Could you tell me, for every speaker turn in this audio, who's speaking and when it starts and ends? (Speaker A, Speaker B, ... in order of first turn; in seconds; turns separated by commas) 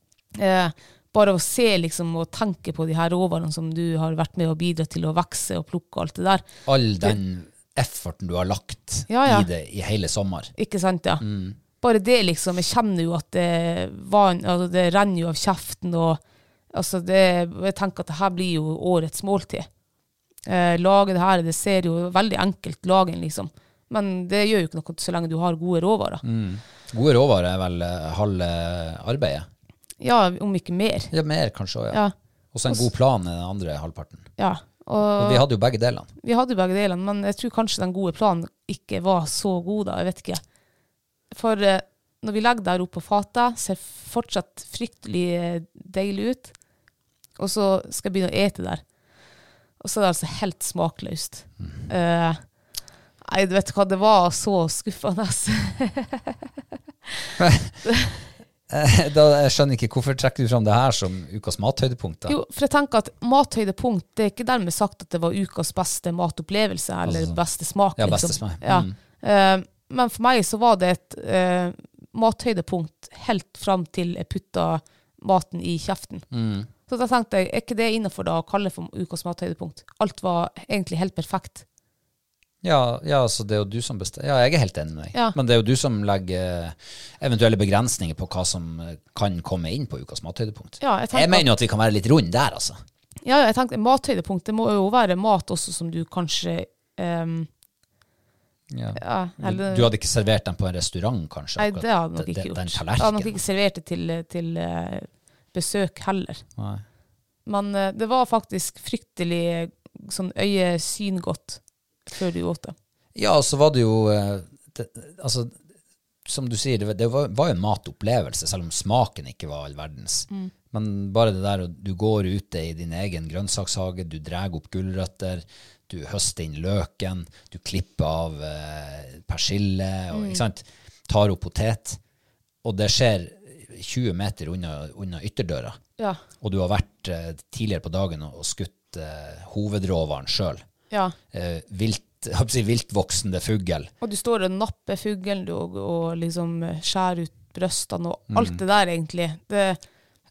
Speaker A: 0.3-6.4, Speaker B: 6.7-10.5, Speaker A: 9.1-9.5, Speaker A: 10.6-11.2, Speaker B: 11.2-11.6, Speaker A: 11.8-16.2, Speaker A: 16.7-19.7, Speaker A: 20.4-26.2, Speaker B: 26.2-29.5, Speaker A: 30.0-31.1, Speaker B: 31.1-34.3, Speaker A: 34.4-35.5, Speaker B: 35.0-36.1, Speaker A: 36.2-40.4, Speaker A: 41.3-46.5, Speaker A: 47.4-48.8, Speaker A: 49.8-52.4, Speaker B: 51.6-51.9, Speaker A: 53.2-56.4, Speaker B: 57.4-57.8, Speaker A: 57.9-58.2, Speaker B: 58.7-62.4, Speaker A: 62.3-76.2, Speaker B: 67.0-67.4, Speaker B: 67.9-68.9, Speaker B: 76.3-76.7, Speaker A: 76.9-81.6, Speaker B: 82.6-92.8, Speaker A: 90.8-91.5, Speaker A: 93.2-97.5, Speaker B: 98.7-103.4, Speaker A: 99.0-99.9, Speaker A: 101.6-106.4, Speaker B: 106.6-106.8, Speaker A: 107.5-112.7, Speaker B: 113.2-115.6, Speaker B: 116.2-132.0, Speaker A: 130.1-130.4, Speaker B: 132.6-135.8, Speaker B: 136.4-140.6, Speaker B: 141.3-143.9, Speaker A: 144.0-149.8, Speaker B: 148.3-148.6